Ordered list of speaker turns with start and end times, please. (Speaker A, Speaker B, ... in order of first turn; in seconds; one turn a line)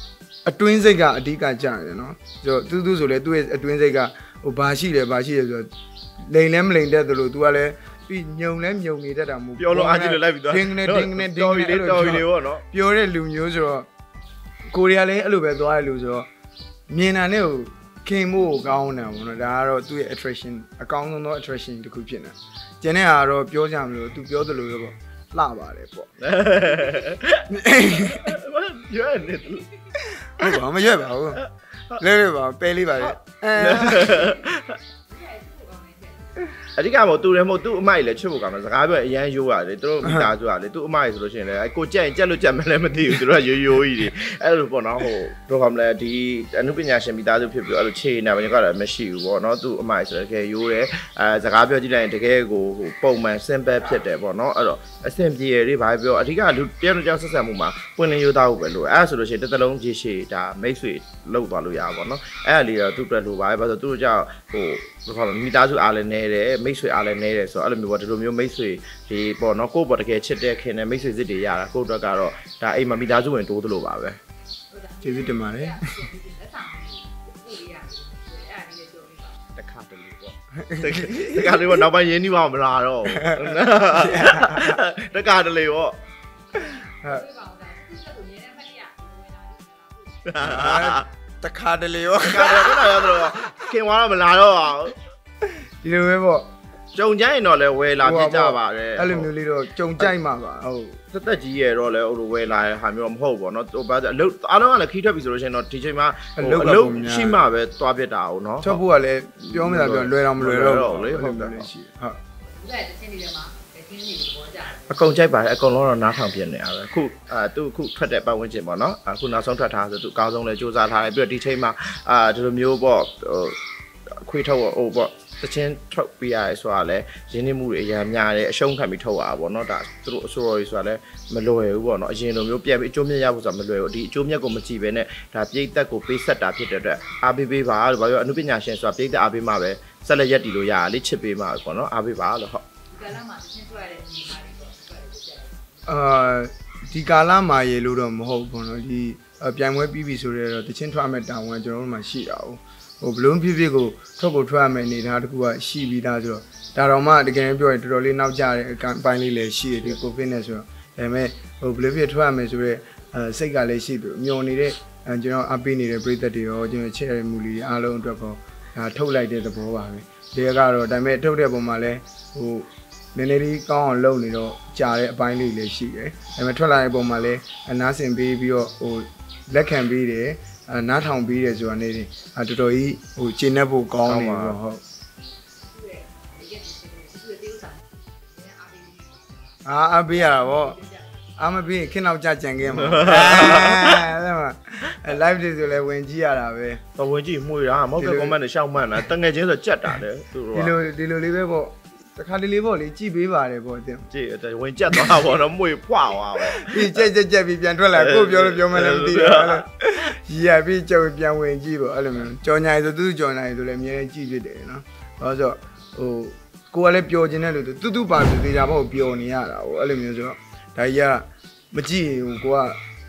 Speaker A: 0.5-5.7
Speaker A: 6.2-13.9
Speaker B: 9.6-12.6
Speaker A: 14.7-16.3
Speaker A: 16.9-26.1
Speaker B: 26.2-29.7
Speaker A: 27.5-28.3
Speaker A: 30.2-31.4
Speaker B: 31.3-32.0
Speaker A: 32.0-34.2
Speaker B: 33.0-34.8
Speaker C: 34.2-36.6
Speaker B: 36.8-74.2
Speaker A: 40.0-40.3
Speaker C: 74.7-79.4
Speaker A: 75.0-75.9
Speaker B: 79.6-86.0
Speaker A: 80.6-81.7
Speaker A: 83.1-84.8
Speaker C: 86.5-90.3
Speaker B: 90.2-91.1
Speaker A: 90.4-93.6
Speaker B: 92.2-95.0
Speaker A: 95.4-96.5
Speaker B: 96.9-99.3
Speaker A: 98.0-101.0
Speaker B: 101.1-108.8
Speaker A: 106.4-107.4
Speaker A: 108.6-112.2
Speaker B: 109.5-111.7
Speaker C: 112.4-114.8
Speaker B: 114.9-123.6
Speaker B: 124.2-142.6
Speaker C: 142.9-145.9
Speaker A: 145.9-184.8
Speaker B: 184.1-184.6
Speaker C: 185.7-191.7
Speaker A: 189.6-190.8
Speaker A: 191.4-196.8
Speaker B: 192.7-194.1
Speaker B: 196.9-200.7
Speaker A: 198.0-198.4
Speaker A: 200.5-204.1
Speaker B: 204.1-207.1
Speaker A: 204.9-205.2
Speaker A: 206.5-222.8
Speaker B: 207.9-209.7